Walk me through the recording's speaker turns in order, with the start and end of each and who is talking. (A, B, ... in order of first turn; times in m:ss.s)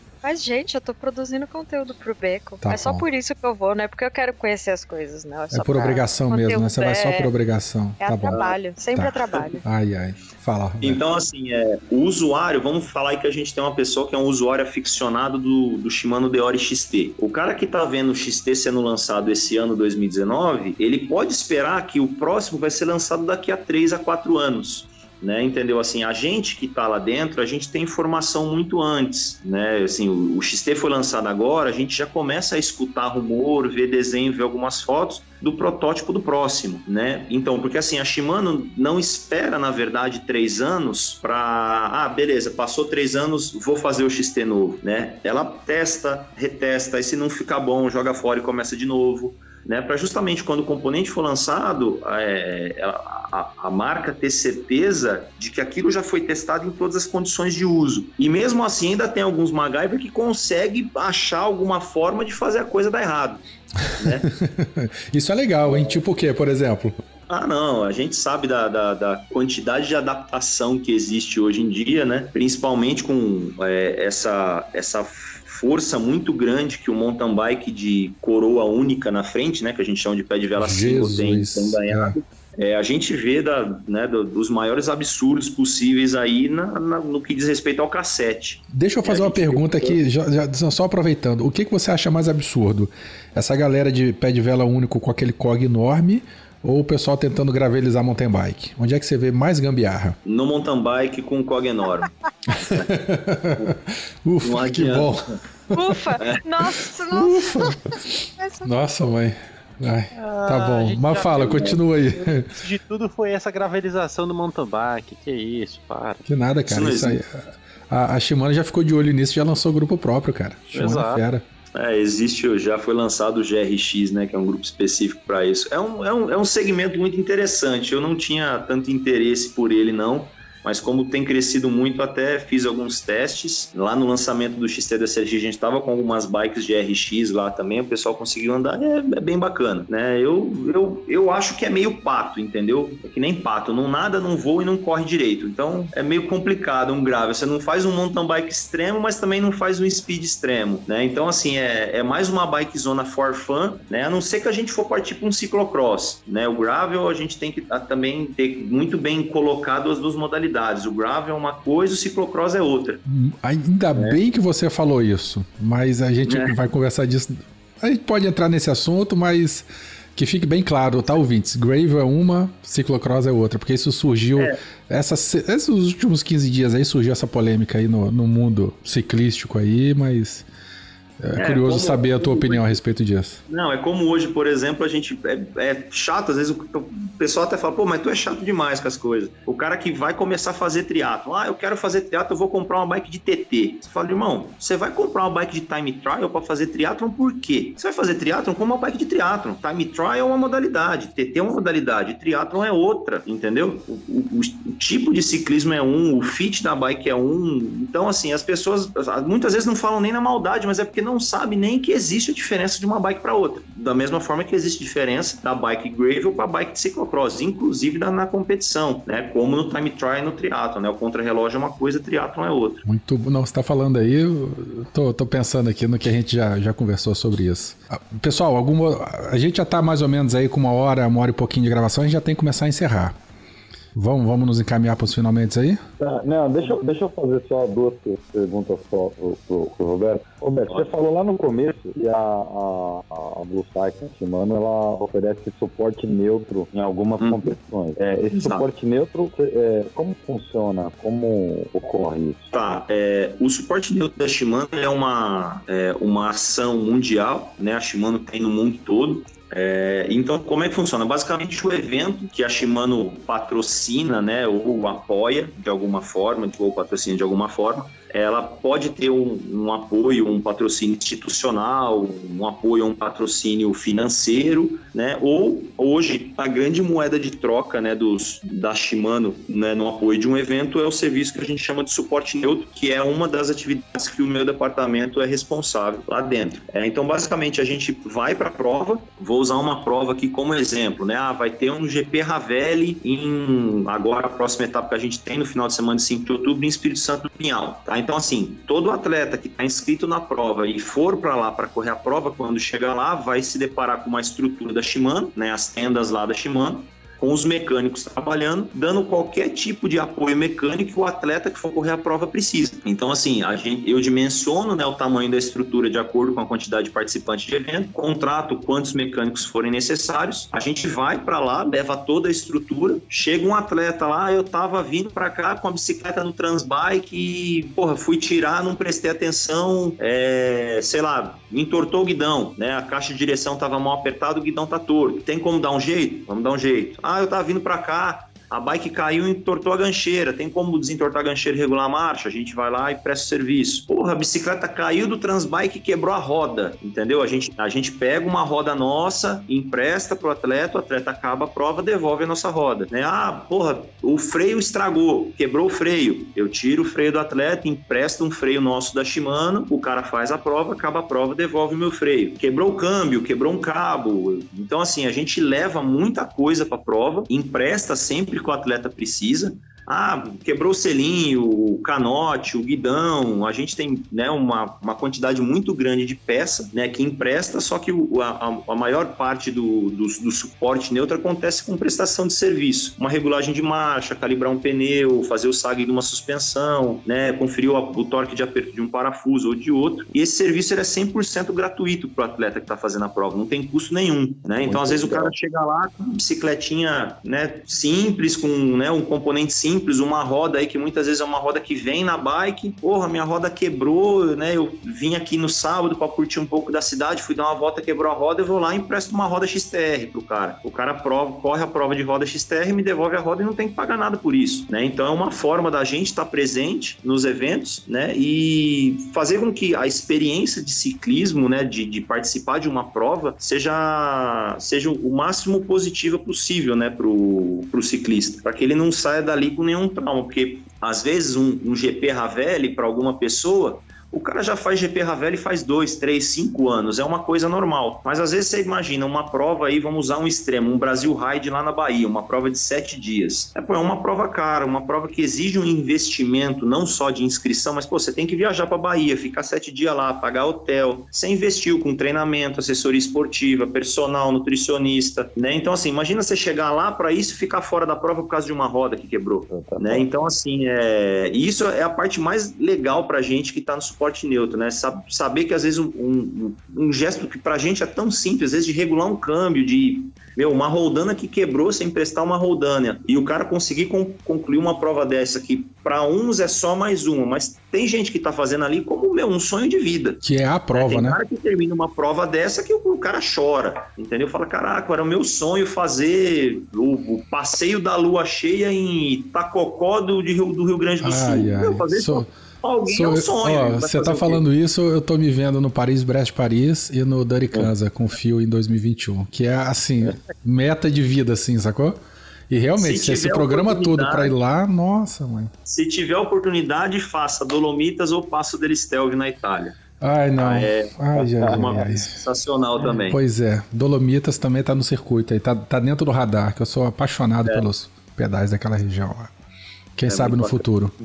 0:00.2-0:07.3 A
0:02.6-0:03.0 B
0:05.5-0:08.4 B
0:08.0-0:09.6 A
0:08.9-0:11.0 B
0:10.8-1:03.4 C
1:04.0-1:04.3 C
1:04.0-1:07.0 B
1:05.7-1:06.0 C
1:07.3-1:30.0 C
1:20.6-1:22.2 B
1:28.7-1:40.2 B
1:40.2-1:42.8 C
1:42.5-1:45.8 B
1:44.4-1:45.4 C
1:45.7-1:48.7 A
1:47.1-1:52.6 B
1:50.1-1:51.8 D
1:52.5-1:56.2 D
1:56.3-2:01.4 B
1:56.7-1:57.2 C
2:00.7-2:01.2 D
2:01.8-2:43.0 C
2:43.1-3:00.5 B
2:46.3-2:46.6 C
3:01.2-3:03.4 B
3:01.4-3:02.8 C
3:03.5-3:42.8 C
3:42.8-3:53.2 B
3:54.0-3:55.8 B
3:56.0-4:12.5 E
4:08.3-4:08.6 C
4:12.5-8:00.2 C
6:34.6-6:35.3 E
7:39.5-7:40.1 E
8:00.2-8:01.2 B
8:00.7-8:14.4 C
8:11.0-8:12.3 B
8:12.9-8:25.5 B
8:22.8-8:24.3 C
8:25.7-8:29.8 C
8:30.0-8:32.2 B
8:30.4-8:33.2 C
8:31.5-8:31.9 E
8:33.1-8:39.3 B
8:40.0-8:40.9 B
8:40.1-8:40.6 C